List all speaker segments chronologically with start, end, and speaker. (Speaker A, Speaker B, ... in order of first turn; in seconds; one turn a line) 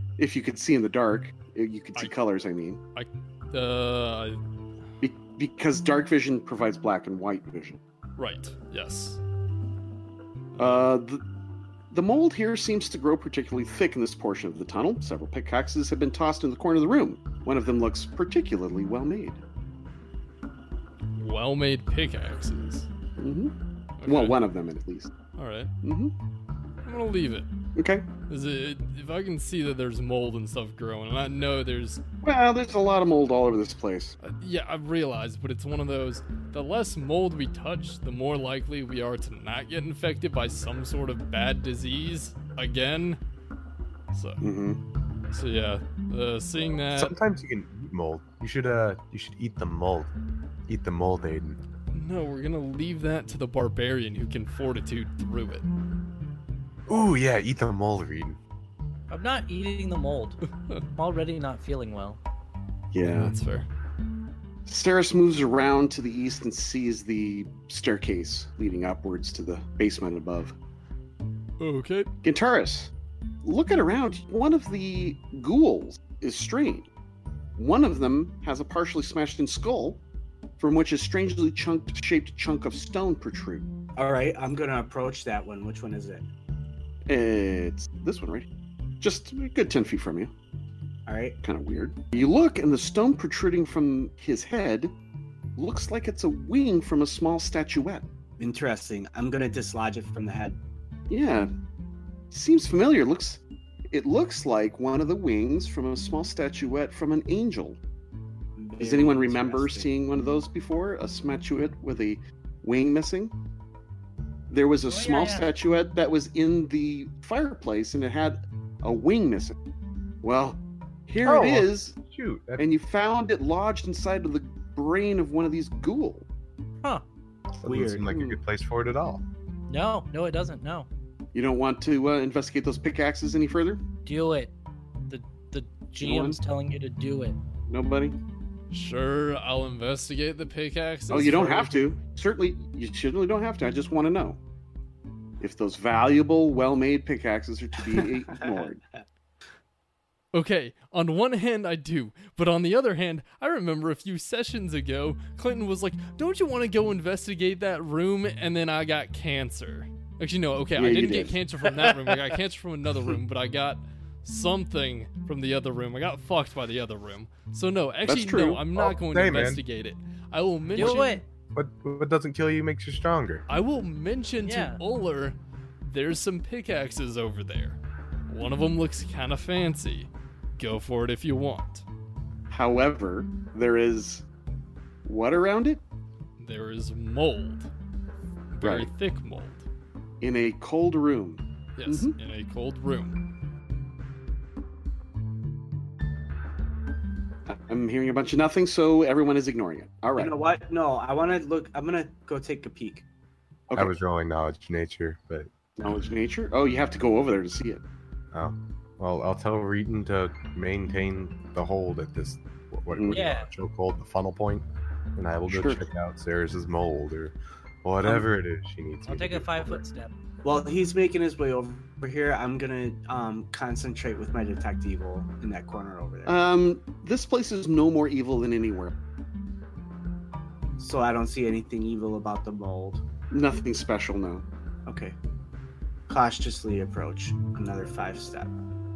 Speaker A: 0.2-2.8
Speaker B: 2.9-4.4
Speaker A: 5.0-7.8
Speaker B: 8.2-9.2
Speaker B: 10.5-10.8
Speaker A: 10.6-11.2
Speaker A: 11.9-19.4
Speaker B: 21.1-22.9
Speaker A: 23.2-23.5
Speaker B: 24.0-24.4
Speaker A: 24.1-25.1
Speaker B: 25.4-25.7
Speaker A: 25.8-26.1
Speaker B: 26.9-27.5
Speaker A: 27.8-28.1
Speaker B: 28.3-32.0
Speaker A: 32.2-34.1
Speaker B: 34.2-43.2
Speaker B: 44.1-44.4
Speaker A: 44.4-44.8
Speaker B: 45.3-47.1
Speaker C: 46.9-50.1
Speaker C: 50.7-51.6
Speaker B: 51.9-55.6
Speaker C: 56.9-58.4
Speaker D: 59.1-60.4
Speaker D: 61.0-62.2
Speaker A: 62.9-63.3
Speaker B: 63.0-63.6
Speaker A: 64.7-70.6
Speaker B: 71.6-72.1
Speaker A: 72.2-72.9
Speaker A: 73.4-76.9
Speaker A: 77.6-80.0
Speaker A: 80.6-83.7
Speaker E: 84.0-86.2
Speaker A: 87.1-88.5
Speaker A: 89.0-90.3
Speaker E: 91.1-91.4
Speaker A: 91.4-94.9
Speaker A: 95.6-98.1
Speaker E: 98.4-100.6
Speaker A: 101.1-101.5
Speaker A: 102.3-107.8
Speaker E: 108.6-109.9
Speaker A: 108.8-113.3
Speaker A: 114.5-119.5
Speaker D: 114.9-115.5
Speaker A: 120.2-121.9
Speaker C: 121.2-122.7
Speaker A: 122.6-126.2
Speaker C: 127.6-129.2
Speaker E: 127.7-128.1
Speaker A: 128.1-128.4
Speaker D: 129.7-130.9
Speaker A: 131.3-133.8
Speaker D: 134.1-134.5
Speaker D: 135.1-137.4
Speaker A: 136.0-136.4
Speaker A: 137.7-138.2
Speaker B: 138.7-141.7
Speaker A: 141.1-144.4
Speaker A: 145.4-148.8
Speaker E: 148.0-148.7
Speaker B: 150.3-171.2
Speaker A: 160.8-161.4
Speaker D: 161.6-162.2
Speaker A: 168.1-168.7
Speaker C: 168.7-169.6
Speaker D: 170.8-171.2
Speaker C: 171.5-173.4
Speaker B: 173.5-181.8
Speaker D: 174.4-174.8
Speaker A: 182.5-184.2
Speaker A: 185.0-185.8
Speaker B: 186.4-187.7
Speaker B: 188.5-189.6
Speaker A: 188.6-188.9
Speaker A: 190.2-192.2
Speaker B: 191.8-193.2
Speaker A: 197.5-200.3
Speaker E: 200.2-203.1
Speaker C: 203.7-205.5
Speaker A: 205.8-207.8
Speaker C: 208.3-214.6
Speaker A: 212.9-213.2
Speaker D: 213.1-213.5
Speaker C: 215.2-219.8
Speaker A: 215.5-215.8
Speaker D: 219.1-220.1
Speaker E: 220.4-226.4
Speaker A: 226.2-228.9
Speaker E: 230.8-233.0
Speaker A: 233.3-234.4
Speaker E: 234.9-235.2
Speaker E: 236.1-238.5